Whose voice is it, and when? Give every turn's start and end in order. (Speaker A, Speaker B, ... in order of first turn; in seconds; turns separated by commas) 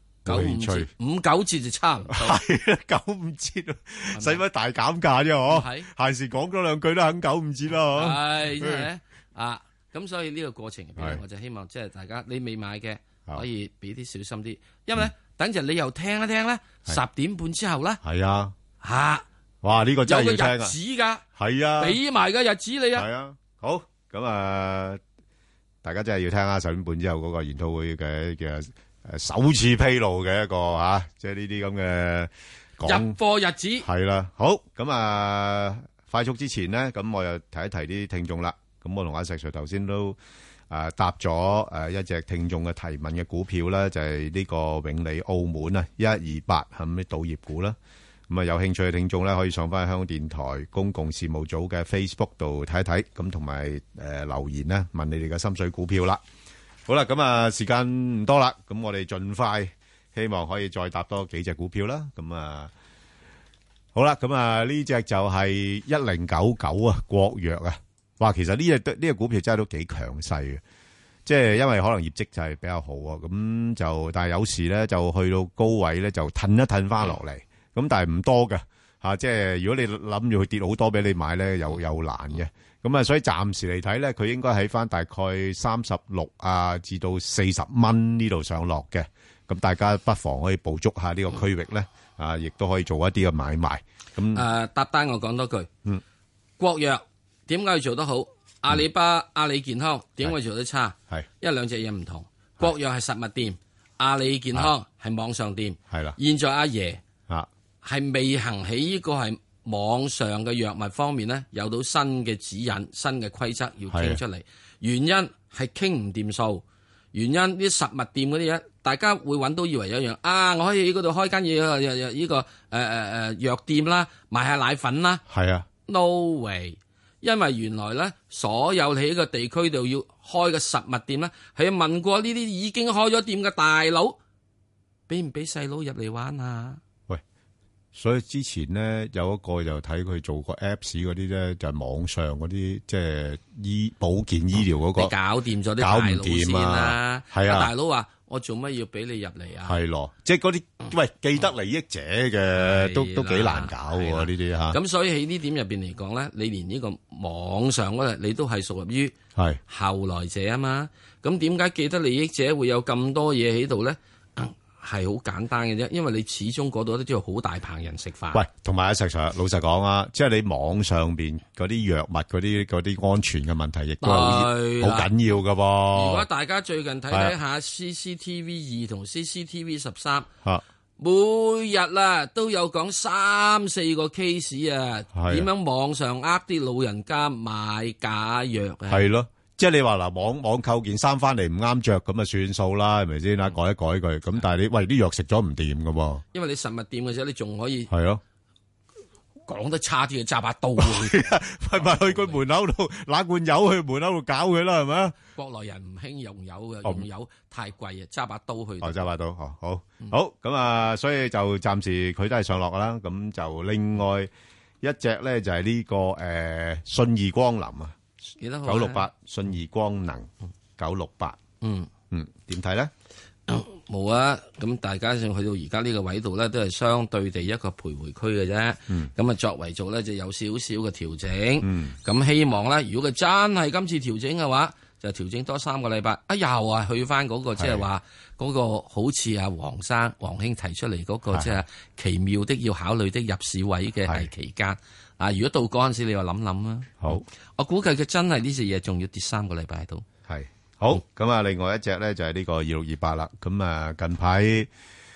Speaker A: 0.2-2.4, Speaker B: 0.3-0.9, Speaker B: 2.1-8.9, Speaker A: 4.1-4.4, Speaker A: 5.5-5.9, Speaker A: 8.0-18.0, Speaker B: 11.0-11.2, Speaker B: 18.0-18.6, Speaker A: 18.8-19.2, Speaker B: 19.6-20.8, Speaker A: 20.1-21.2, Speaker B: 21.4-22.0, Speaker A: 21.8-23.1, Speaker B: 22.9-25.0, Speaker B: 25.8-33.2, Speaker A: 32.9-33.9, Speaker B: 33.8-40.2, Speaker B: 40.7-47.8, Speaker B: 48.3-56.2, Speaker B: 56.9-62.7, Speaker B: 63.9-70.6, Speaker B: 71.3-94.4, Speaker A: 94.3-95.7, Speaker A: 96.6-107.0, Speaker B: 105.9-106.2, Speaker A: 107.8-125.2, Speaker B: 113.9-114.2, Speaker B: 125.3-125.7, Speaker A: 125.9-134.2, Speaker A: 135.1-136.8, Speaker B: 137.9-145.1, Speaker A: 144.9-149.8, Speaker B: 145.8-147.7, Speaker B: 149.7-154.8, Speaker A: 152.6-159.2, Speaker A: 159.7-168.4, Speaker B: 168.3-176.3, Speaker A: 174.0-175.1, Speaker A: 175.9-180.3, Speaker B: 177.1-177.4, Speaker A: 181.0-189.1, Speaker B: 185.1-185.5, Speaker B: 188.9-196.2, Speaker A: 196.3-197.9, Speaker B: 197.9-198.2, Speaker A: 199.5-202.4, Speaker B: 200.8-205.2, Speaker A: 205.4-209.1, Speaker B: 208.8-214.3, Speaker B: 214.8-218.0, Speaker A: 218.4-219.1, Speaker B: 218.7-221.4, Speaker A: 221.6-221.9, Speaker B: 222.1-222.9, Speaker A: 223.5-250.1, Speaker B: 231.6-232.0, Speaker B: 237.6-237.8, Speaker B: 250.3-254.7